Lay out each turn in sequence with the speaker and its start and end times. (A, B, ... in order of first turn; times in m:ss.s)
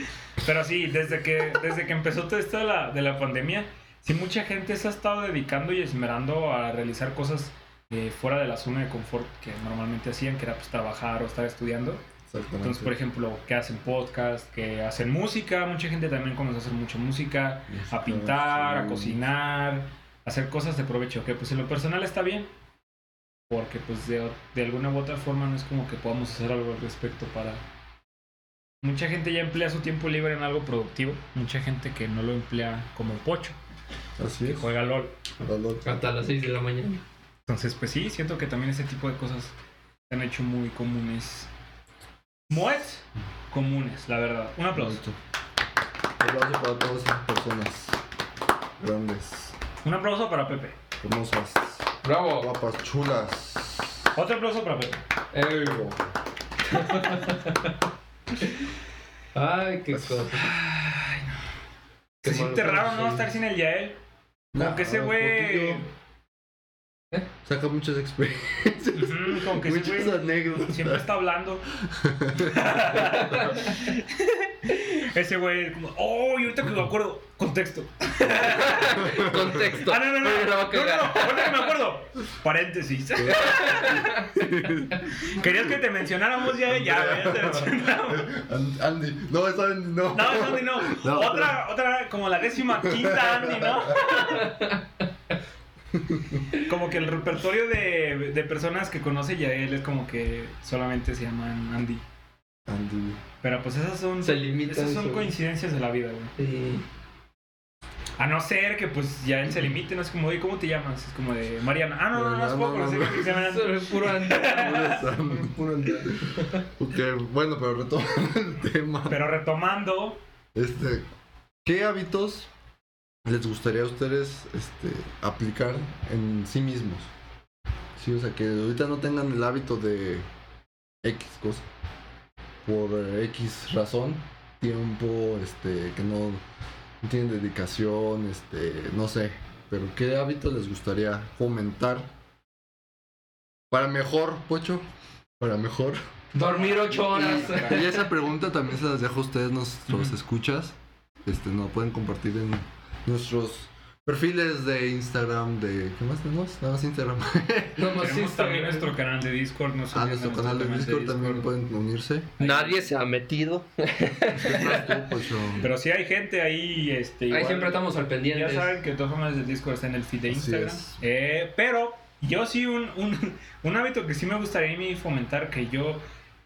0:00.4-0:12.0 A
0:12.3-0:12.9 B
0:12.6-0:22.5 A
0:17.7-0:19.2 B
0:23.5-0:27.6 A
0:28.8-0:33.6 A
0:34.2-0:34.7 B
0:34.4-0:35.2 A
0:35.4-0:36.0 B
0:35.8-0:37.0 C
0:37.5-0:39.5 A
0:40.1-0:41.5 A
0:42.5-0:45.0 A
0:44.7-0:45.2 B
0:46.2-0:48.0 B
0:48.8-0:49.6 B
0:49.8-0:50.8 A
0:51.0-0:51.9 B
0:52.0-0:52.5 C
0:52.4-0:54.1 B
0:54.1-0:55.0 A
0:55.3-0:55.8 C
0:55.6-0:56.1 B
0:56.6-0:57.8 C
0:59.3-1:00.5 C
1:00.3-1:01.3 A
1:02.2-1:03.3 C
1:02.2-1:04.0 A
1:04.5-1:05.8 B
1:04.6-1:05.9 A
1:07.4-1:11.1 B
1:09.0-1:11.6 A
1:11.8-1:12.7 B
1:12.4-1:24.4 A
1:13.1-1:13.7 C
1:18.3-1:21.7 C
1:19.0-1:19.5 B
1:23.2-1:25.5 B
1:23.3-1:24.3 C
1:25.1-1:28.3 A
1:26.6-1:31.6 B
1:30.1-1:34.7 A
1:32.8-1:34.1 B
1:34.0-1:35.0 C
1:35.9-1:36.4 B
1:36.5-1:42.0 A
1:42.6-1:43.2 B
1:43.4-1:46.3 A
1:44.2-1:45.3 C
1:46.4-1:46.8 C
1:48.2-1:55.1 A
1:52.1-1:53.4 B
1:53.3-1:56.6 C
1:54.4-1:59.2 B
1:59.1-2:00.2 A
2:00.6-2:01.0 B
2:01.6-2:02.5 B
2:03.2-2:07.1 B
2:08.0-2:10.3 B
2:11.0-2:11.7 B
2:12.6-2:16.4 B
2:17.0-2:22.1 B
2:23.7-2:24.9 B
2:25.4-2:26.0 B
2:26.3-2:28.0 C
2:26.6-2:27.9 A
2:27.1-2:37.9 B
2:29.9-2:30.1 A
2:37.8-2:38.9 C
2:38.0-2:41.5 A
2:39.9-2:42.3 B
2:42.4-2:42.8 A
2:42.4-2:45.0 C
2:44.3-2:45.7 B
2:45.6-2:56.0 A
2:47.3-2:48.8 C
2:50.3-2:51.0 B